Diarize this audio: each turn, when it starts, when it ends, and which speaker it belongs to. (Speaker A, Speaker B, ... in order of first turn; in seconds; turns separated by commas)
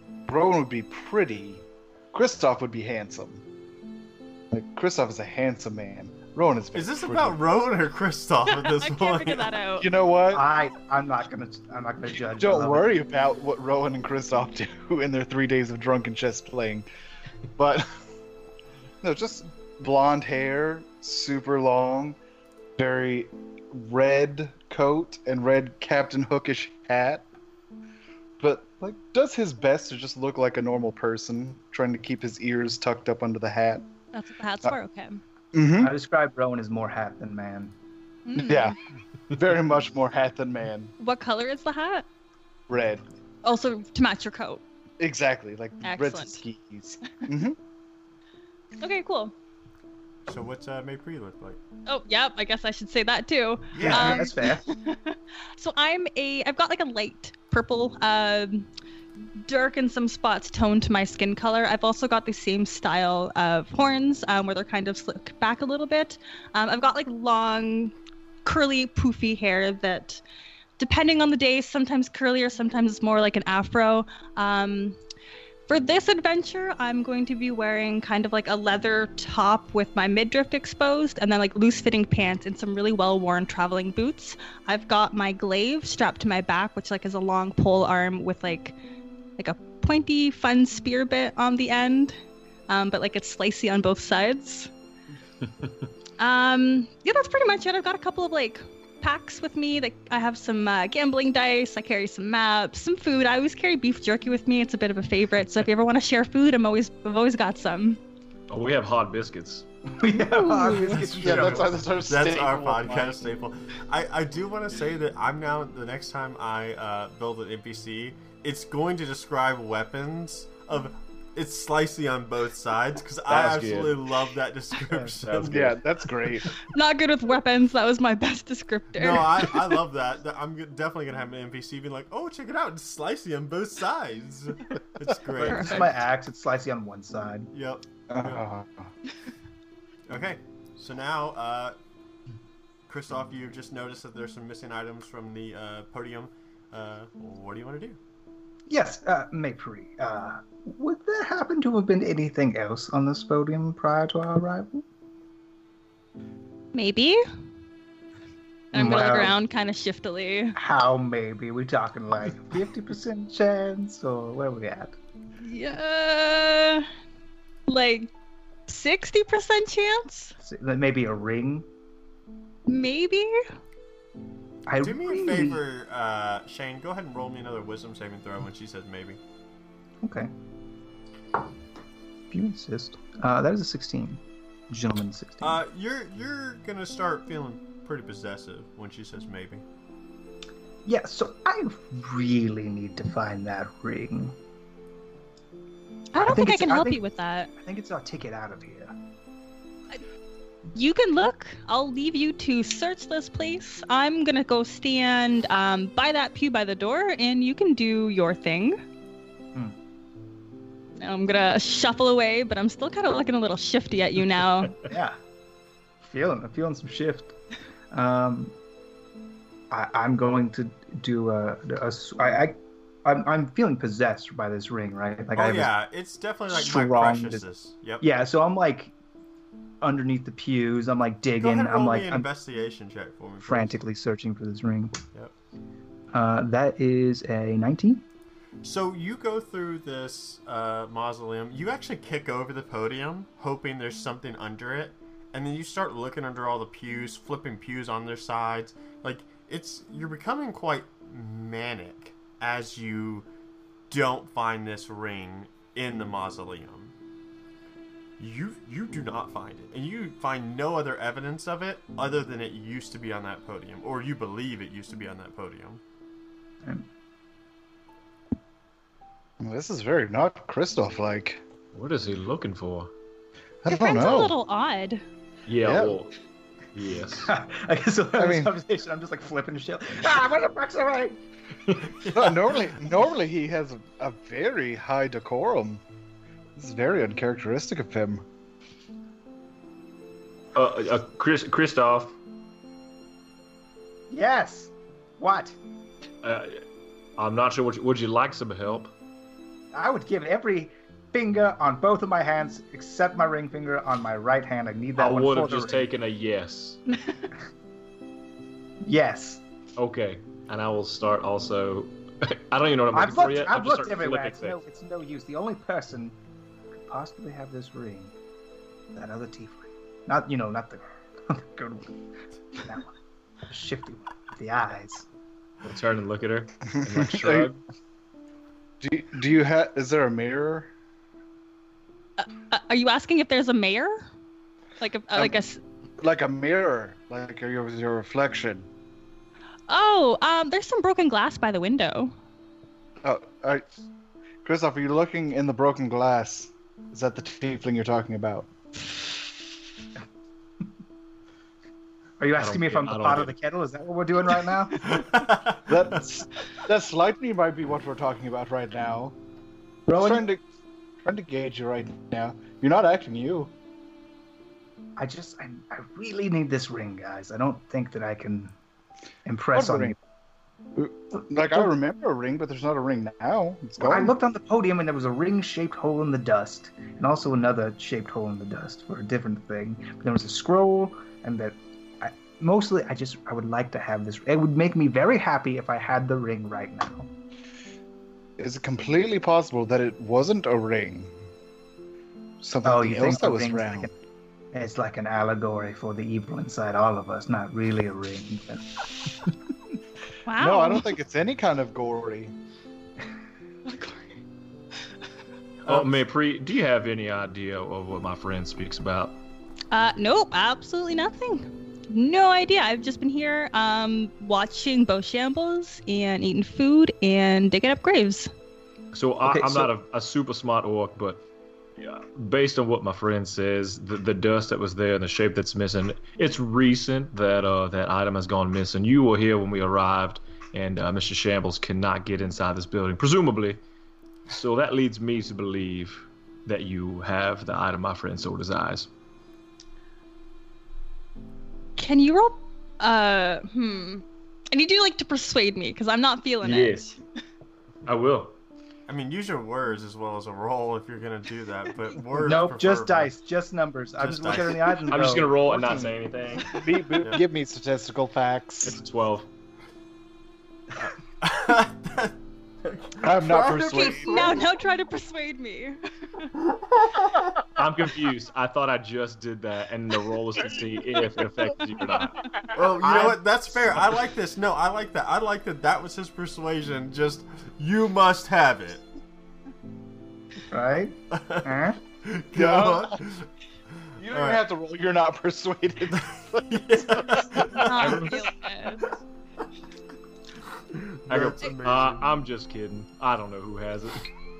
Speaker A: 0.3-3.4, Speaker A: 4.5-7.4, Speaker B: 6.7-9.5, Speaker C: 8.5-9.9, Speaker A: 9.8-10.4, Speaker D: 10.3-12.9, Speaker A: 12.4-16.9, Speaker A: 17.6-17.9, Speaker A: 19.0-22.2, Speaker A: 22.8-27.2, Speaker A: 28.4-33.9, Speaker C: 34.1-35.2, Speaker A: 35.5-35.9, Speaker D: 35.8-37.7, Speaker C: 38.2-38.7, Speaker A: 38.4-38.8, Speaker A: 39.3-40.9, Speaker C: 41.0-42.0, Speaker A: 42.7-43.0, Speaker C: 43.4-44.6, Speaker A: 45.0-47.6, Speaker C: 45.8-46.4, Speaker C: 48.8-49.3, Speaker B: 50.3-51.6, Speaker C: 51.9-58.7, Speaker A: 53.7-54.3, Speaker D: 53.8-54.6, Speaker C: 59.5-67.9, Speaker C: 68.4-70.2, Speaker C: 70.8-75.0, Speaker C: 75.7-88.8, Speaker C: 89.4-92.2, Speaker C: 92.7-94.7, Speaker C: 96.2-108.0, Speaker E: 108.5-109.6, Speaker D: 110.0-111.9, Speaker C: 110.3-111.0, Speaker A: 110.9-113.2, Speaker B: 111.0-125.8, Speaker E: 123.3-124.0, Speaker E: 125.2-125.8, Speaker A: 125.5-126.5, Speaker C: 126.6-129.6, Speaker B: 128.9-135.9, Speaker D: 135.3-137.5, Speaker C: 135.4-135.9, Speaker B: 137.5-138.4, Speaker A: 138.1-138.9, Speaker B: 140.1-141.8, Speaker B: 142.9-148.0, Speaker D: 148.7-154.8, Speaker C: 156.7-157.2, Speaker D: 158.7-159.4, Speaker C: 158.7-160.6, Speaker D: 160.5-164.9, Speaker C: 165.4-166.9, Speaker C: 167.7-168.1, Speaker C: 168.7-170.3, Speaker D: 170.4-171.7, Speaker C: 172.7-173.4, Speaker D: 174.7-175.6, Speaker B: 174.8-179.2, Speaker D: 180.0-180.3, Speaker D: 182.3-185.6, Speaker B: 185.4-189.6, Speaker D: 190.8-194.3, Speaker C: 196.1-197.5, Speaker D: 196.2-197.0, Speaker D: 197.6-198.9, Speaker C: 200.7-208.8, Speaker C: 211.0-214.8, Speaker D: 214.8-215.2, Speaker D: 216.0-217.3, Speaker D: 217.9-218.5, Speaker D: 219.7-225.7, Speaker B: 225.3-228.1, Speaker D: 226.5-227.4, Speaker D: 228.0-228.9, Speaker D: 229.8-232.3, Speaker B: 231.4-233.8, Speaker D: 233.4-235.0, Speaker D: 236.1-238.0, Speaker B: 238.6-253.3, Speaker B: 253.9-256.9, Speaker B: 258.2-265.8, Speaker A: 269.4-271.4, Speaker E: 271.7-272.9, Speaker A: 273.6-274.3, Speaker C: 273.7-275.0, Speaker E: 275.5-276.1, Speaker A: 275.6-276.0, Speaker E: 276.7-277.3, Speaker D: 277.2-281.2, Speaker A: 278.2-278.5, Speaker A: 282.1-285.8, Speaker A: 286.6-288.2, Speaker E: 290.5-292.2, Speaker D: 294.1-295.6, Speaker E: 296.2-296.6, Speaker E: 297.2-298.9, Speaker D: 299.7-305.9, Speaker E: 305.0-306.8, Speaker D: 308.8-309.4, Speaker E: 309.8-314.6, Speaker D: 312.9-316.2, Speaker D: 316.7-318.1, Speaker D: 318.9-322.0, Speaker D: 322.6-322.9, Speaker D: 323.4-325.1, Speaker E: 325.6-327.6, Speaker A: 326.7-327.5, Speaker A: 328.8-330.7, Speaker C: 332.2-334.0, Speaker C: 334.8-335.6, Speaker A: 336.0-338.7, Speaker C: 339.7-342.1, Speaker A: 343.0-343.6, Speaker A: 344.4-348.5, Speaker D: 352.2-355.0, Speaker E: 352.4-353.3, Speaker B: 354.8-356.0, Speaker A: 355.7-359.1, Speaker D: 359.9-360.2, Speaker A: 359.9-360.4, Speaker A: 361.0-363.5, Speaker D: 365.0-368.5, Speaker D: 369.2-370.0, Speaker A: 369.5-369.9, Speaker A: 370.8-374.1, Speaker D: 373.8-387.1, Speaker A: 388.4-391.1, Speaker A: 392.4-393.9, Speaker D: 392.6-393.9, Speaker D: 394.5-398.6, Speaker C: 400.2-400.9, Speaker A: 400.4-402.3, Speaker C: 403.6-404.2, Speaker B: 405.6-406.0, Speaker E: 405.6-409.1, Speaker C: 409.7-418.3, Speaker E: 418.9-421.2, Speaker D: 419.2-419.7, Speaker E: 421.8-433.6, Speaker E: 434.3-438.9, Speaker C: 441.8-447.0, Speaker E: 446.4-446.9, Speaker E: 447.9-448.4, Speaker B: 448.9-453.1, Speaker D: 452.2-455.9, Speaker B: 454.0-454.8, Speaker E: 454.9-456.6, Speaker A: 456.5-458.8, Speaker E: 458.6-459.3, Speaker B: 461.2-464.5, Speaker A: 463.0-464.4, Speaker C: 463.7-466.3, Speaker B: 466.7-467.4, Speaker E: 467.6-472.2, Speaker B: 472.5-478.8, Speaker E: 472.8-473.2, Speaker D: 480.5-481.8, Speaker B: 481.1-483.3, Speaker A: 482.3-483.0, Speaker A: 484.0-487.6, Speaker B: 484.1-484.4, Speaker B: 485.9-488.0, Speaker C: 487.6-488.8, Speaker E: 487.8-488.2, Speaker B: 490.7-492.1, Speaker E: 491.1-494.1